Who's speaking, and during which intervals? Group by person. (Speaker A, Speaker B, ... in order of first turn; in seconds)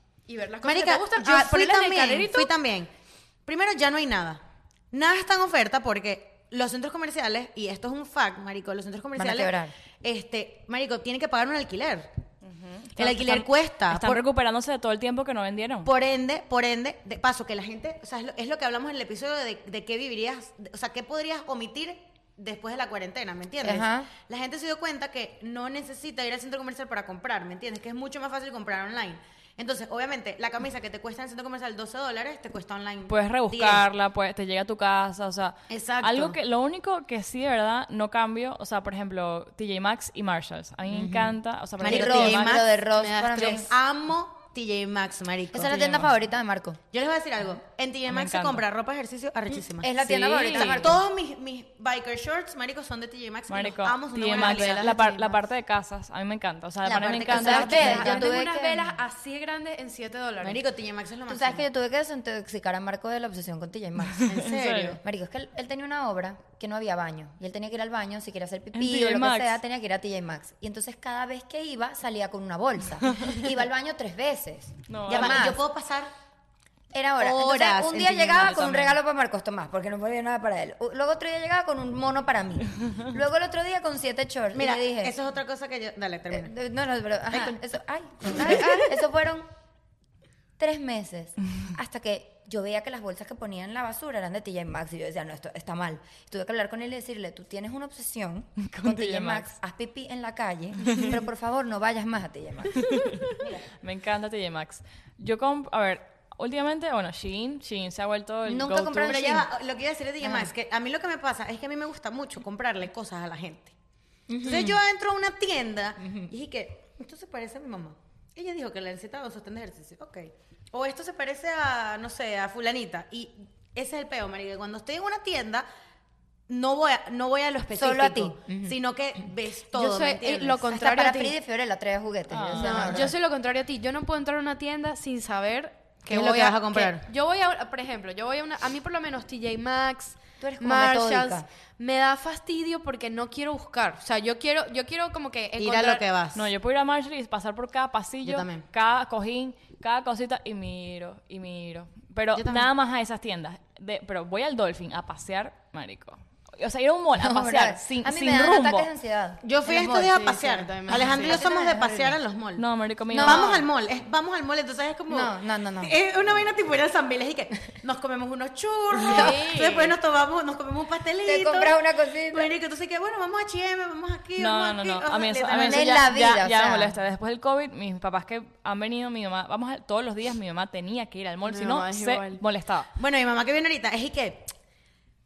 Speaker A: 0.3-2.5, 42.9-43.7, 54.3-55.4, 57.5-60.6, 88.4-88.8, 129.7-131.3, 132.6-146.0, 160.0-161.4, 169.0-169.9, 181.4-182.4
Speaker B: 0.6-2.9, 3.5-4.4, 4.9-12.1, 13.0-14.2, 15.8-33.8, 35.7-36.4, 41.8-42.6, 43.3-45.8, 46.9-54.9, 56.8-58.3, 60.4-61.6, 64.2-65.0, 75.1-76.1, 77.2-78.8, 84.5-86.5, 109.0-113.7, 114.4-125.7, 126.5-130.7, 136.1-137.0, 145.6-146.5, 148.2-148.6, 152.3-152.7, 159.4-162.6, 163.2-171.8, 172.3-176.0, 182.9-184.5
Speaker C: 9.2-9.7, 23.6-24.1, 40.9-43.7, 45.5-46.8, 49.8-51.0, 57.3-58.9, 61.3-75.6, 76.9-85.1, 86.3-89.5, 90.6-103.6, 108.5-109.5, 110.2-110.5, 114.3-114.8, 116.0-116.3, 127.7-128.8, 130.7-133.1, 140.4-141.4, 157.2-160.2, 160.9-162.2, 163.1-163.6, 165.1-165.9, 168.9-169.4, 171.2-172.5, 175.6-176.9
Speaker D: 12.4-15.9, 33.1-42.6, 45.6-46.1, 48.1-48.6, 50.0-50.9, 53.5-58.2, 64.1-65.0, 68.7-69.6, 74.9-75.5, 78.6-79.0, 98.6-99.5, 100.8-101.1, 102.8-109.3, 132.3-133.1, 146.3-158.9, 162.6-163.6, 174.4-182.9